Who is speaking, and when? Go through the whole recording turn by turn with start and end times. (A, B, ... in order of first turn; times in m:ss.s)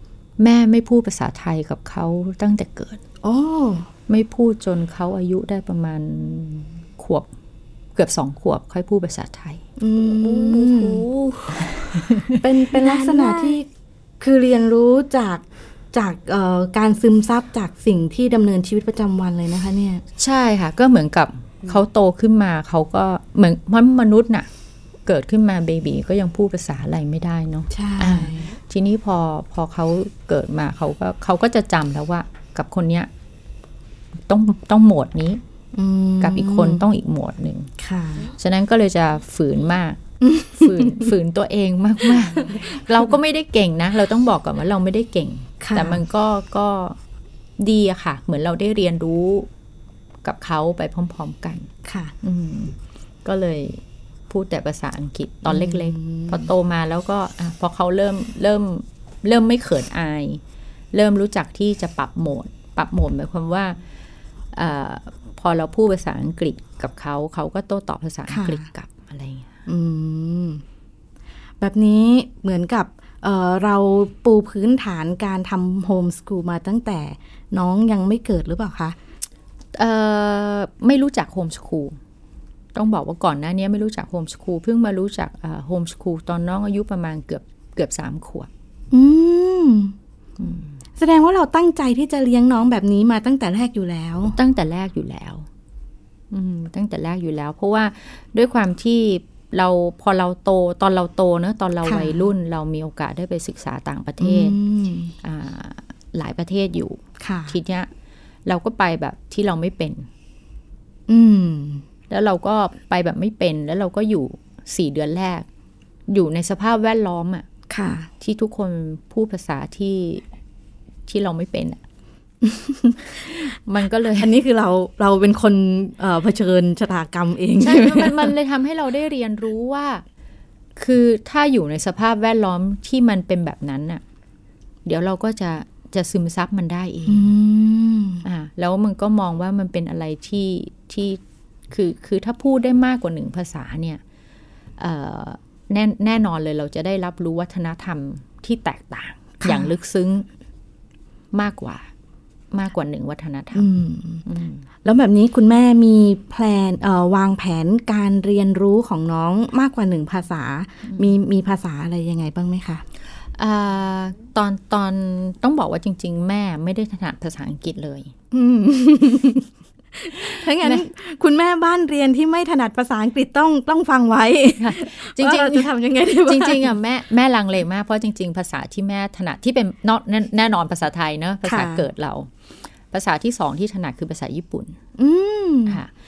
0:00.4-0:03.0 A
0:03.2-0:03.9 B
0:04.1-0:07.3 A
0:08.0-0:09.6 A
0:09.8-0:11.1 B
0:11.6-0:12.4 A
0:12.3-0:13.7 B
0:14.2-0:20.0 B
0:20.2-0:24.5 A
0:25.0-0:33.1 A
0:27.7-0:28.5 B
0:34.3-0:35.4 A
0:35.7-0:36.8 B
0:36.2-0:37.7 A
0:37.8-0:38.3 B
0:38.4-0:47.0 A
0:40.2-0:41.1 B
0:45.6-0:46.0 B
0:47.6-0:49.5 A
0:50.2-0:51.7 A
0:51.8-0:52.1 B
0:52.2-1:00.4 A
0:55.4-0:56.5 B
1:00.9-1:03.8 A
1:04.5-1:09.6 A
1:08.3-1:08.6 B
1:09.7-1:10.6 B
1:11.6-1:19.0 B
1:19.7-1:22.0 A
1:22.7-1:28.5 A
1:28.9-1:29.9 B
1:30.4-1:30.8 A
1:31.0-1:34.4 B
1:34.3-1:35.5 A
1:36.3-1:44.6 A
1:41.8-1:42.2 B
1:44.2-1:45.1 B
1:45.2-1:47.9 A
1:47.2-1:47.6 B
1:48.4-1:50.1 A
1:51.1-1:51.8 B
1:52.1-1:55.4 A
1:56.1-1:57.4 A
1:57.7-1:58.1 B
1:58.2-2:00.2 A
2:01.1-2:01.8 A
2:02.4-2:03.2 B
2:03.2-2:04.3 A
2:04.2-2:08.3 B
2:07.6-2:10.0 A
2:10.8-2:14.0 A
2:14.8-2:17.3 A
2:17.1-2:18.2 B
2:18.2-2:24.0 A
2:24.8-2:30.3 A
2:29.4-2:29.7 B
2:31.3-2:31.9 A
2:32.5-2:33.7 A
2:33.5-2:34.2 B
2:34.2-2:34.6 A
2:34.8-2:42.8 B
2:43.4-2:48.1 A
2:48.3-2:56.8 B
2:50.2-2:50.8 A
2:54.6-2:55.7 A
2:56.2-3:02.3 A
3:01.4-3:01.8 B
3:02.9-3:04.8 A
3:05.0-3:05.8 B
3:05.6-3:05.9 A